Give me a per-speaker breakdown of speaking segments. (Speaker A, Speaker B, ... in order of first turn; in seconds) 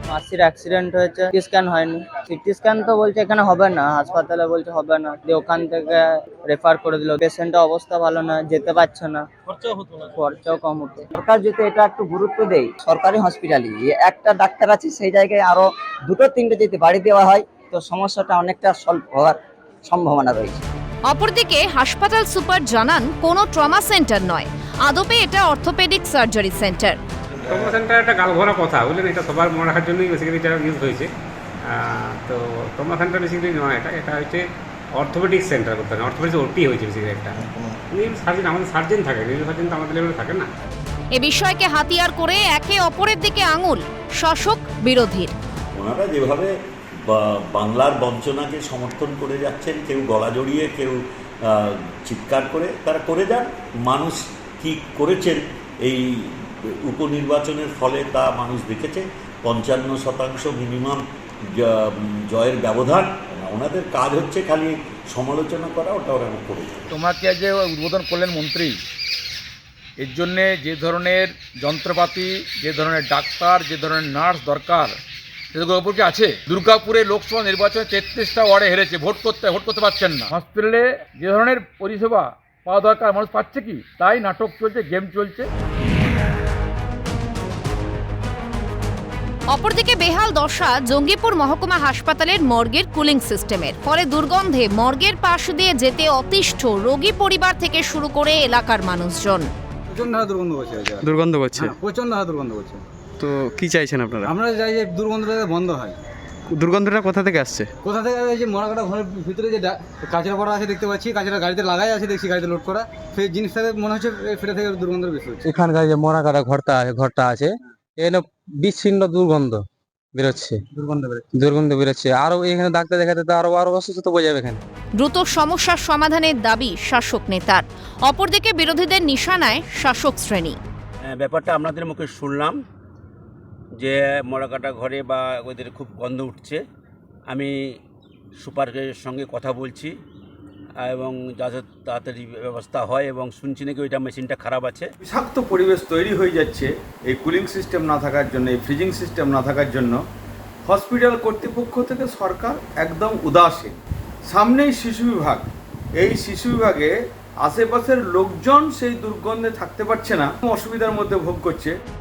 Speaker A: 0.1-9.2, 9.8-11.1
Speaker B: 11.2-20.6
Speaker C: 21.1-27.0, 41.1-45.3, 89.5-99.5, 125.0-130.6
Speaker D: 27.4-31.1, 31.6-40.5
Speaker E: 45.7-46.5, 47.0-66.8
Speaker F: 66.9-68.8, 70.0-75.0, 75.5-85.5
Speaker G: 99.9-102.8, 104.2-106.0, 107.8-115.5
Speaker H: 101.0-101.8, 103.2-104.3, 106.5-107.7
Speaker I: 115.4-119.6, 120.1-124.6
Speaker J: 131.0-132.6, 133.8-136.6, 138.4-139.9, 140.8-144.9
Speaker K: 145.0-150.0, 150.7-153.7, 154.3-155.5, 156.0-156.9, 157.4-161.7